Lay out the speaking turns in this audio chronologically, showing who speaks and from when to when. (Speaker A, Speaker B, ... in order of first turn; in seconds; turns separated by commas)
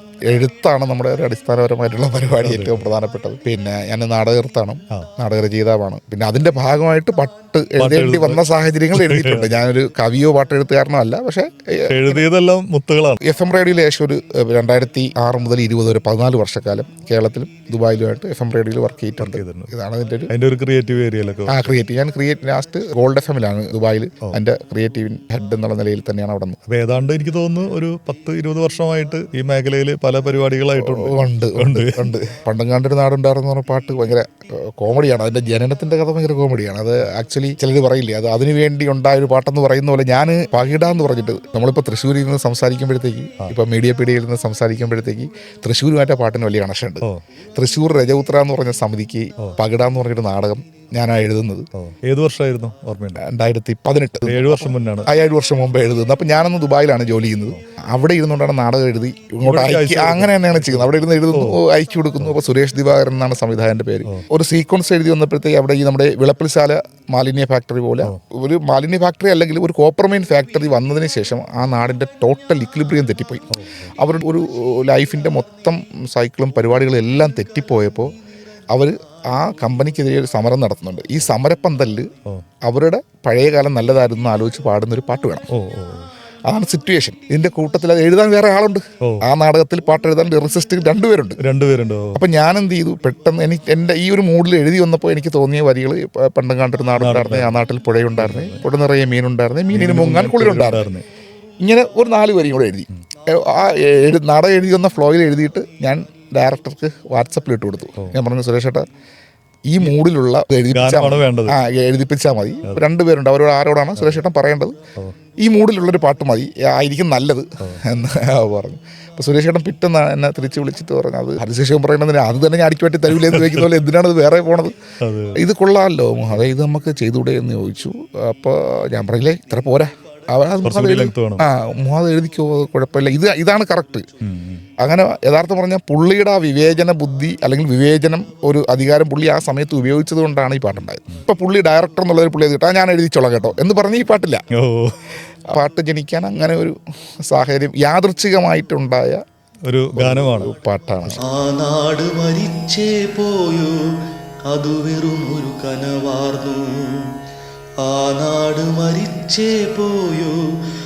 Speaker A: 0.3-12.2, Speaker B: 2.4-2.9, Speaker B: 7.8-8.4, Speaker B: 8.9-9.6, Speaker B: 11.9-13.2, Speaker A: 13.2-20.3, Speaker B: 19.2-19.7, Speaker B: 20.3-21.7, Speaker A: 21.5-26.6, Speaker B: 26.7-32.1, Speaker A: 30.8-51.7, Speaker B: 51.8-53.2, Speaker A: 53.2-78.1, Speaker B: 54.2-55.1, Speaker B: 59.4-61.6, Speaker B: 73.5-73.9, Speaker A: 78.7-82.1, Speaker A: 82.6-85.5, Speaker B: 85.5-86.1, Speaker A: 86.5-91.4, Speaker B: 91.4-92.2, Speaker A: 92.1-100.9, Speaker B: 97.0-97.6, Speaker B: 98.2-98.6, Speaker B: 99.7-101.0, Speaker A: 101.6-108.8, Speaker A: 109.7-114.8, Speaker B: 110.7-111.6, Speaker A: 115.4-124.7, Speaker B: 123.1-123.7, Speaker B: 125.0-125.4, Speaker A: 125.3-134.1, Speaker B: 130.6-131.4, Speaker B: 134.2-134.6, Speaker A: 134.8-144.4, Speaker B: 144.5-144.9, Speaker A: 145.5-146.8, Speaker A: 147.3-149.2, Speaker B: 149.7-150.5, Speaker A: 149.9-151.2, Speaker C: 151.2-153.8, Speaker C: 154.5-157.1, Speaker C: 157.8-160.4